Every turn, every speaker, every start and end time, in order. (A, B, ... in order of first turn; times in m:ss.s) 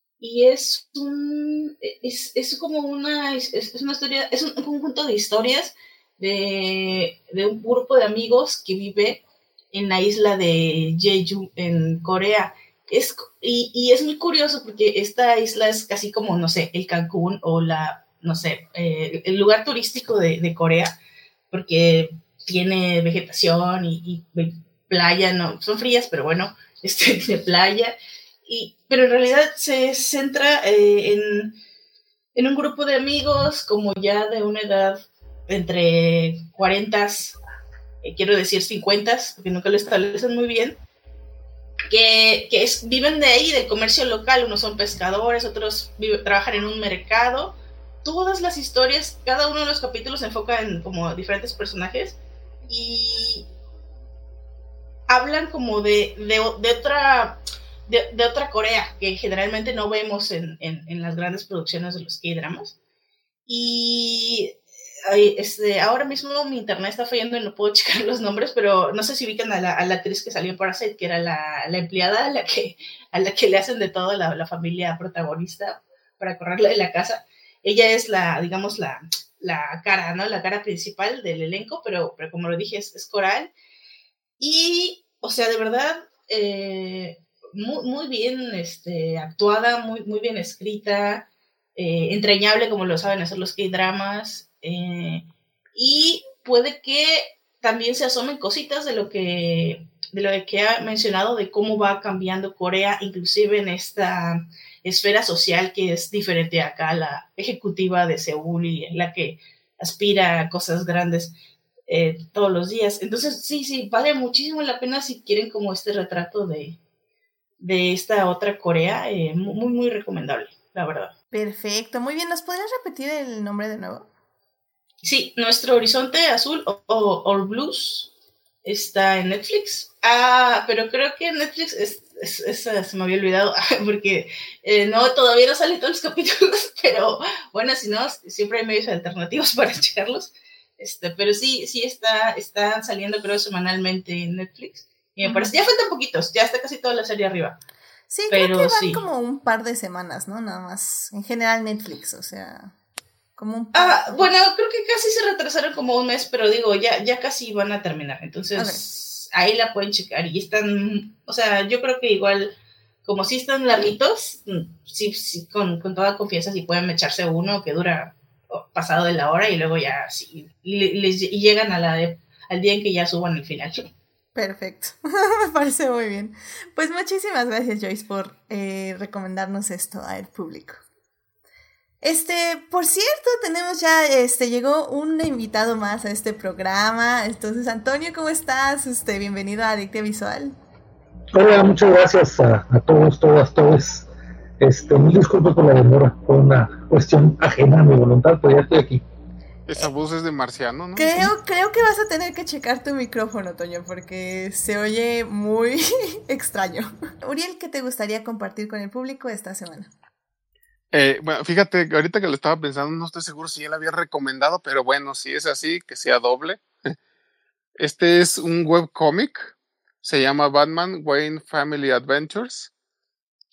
0:00.2-0:21.0 A
0:21.5-0:27.9 A
0:28.4-0:31.6 A
0:32.4-0:37.4 A
0:38.0-0:40.8 A
0:41.9-0:53.5 A
0:55.1-1:02.8 A
1:03.5-1:04.5 A
1:05.0-1:23.5 A
1:24.4-1:51.3 A
1:51.9-1:56.8 A
1:57.6-2:01.1 A
2:01.3-2:04.1 B
2:05.0-2:08.1 A
2:08.6-2:27.6 A
2:25.2-2:25.5 B
2:28.1-2:32.7 B
2:28.3-2:29.0 A
2:33.4-2:34.3 B
2:33.7-2:53.9 A
2:54.4-3:00.8 B
3:02.0-3:10.6 B
3:11.3-3:14.0 C
3:14.6-3:19.0 C
3:19.6-3:21.3 D
3:21.0-3:29.9 B
3:30.9-3:36.9 D
3:37.8-3:39.5 D
3:40.0-3:42.7 D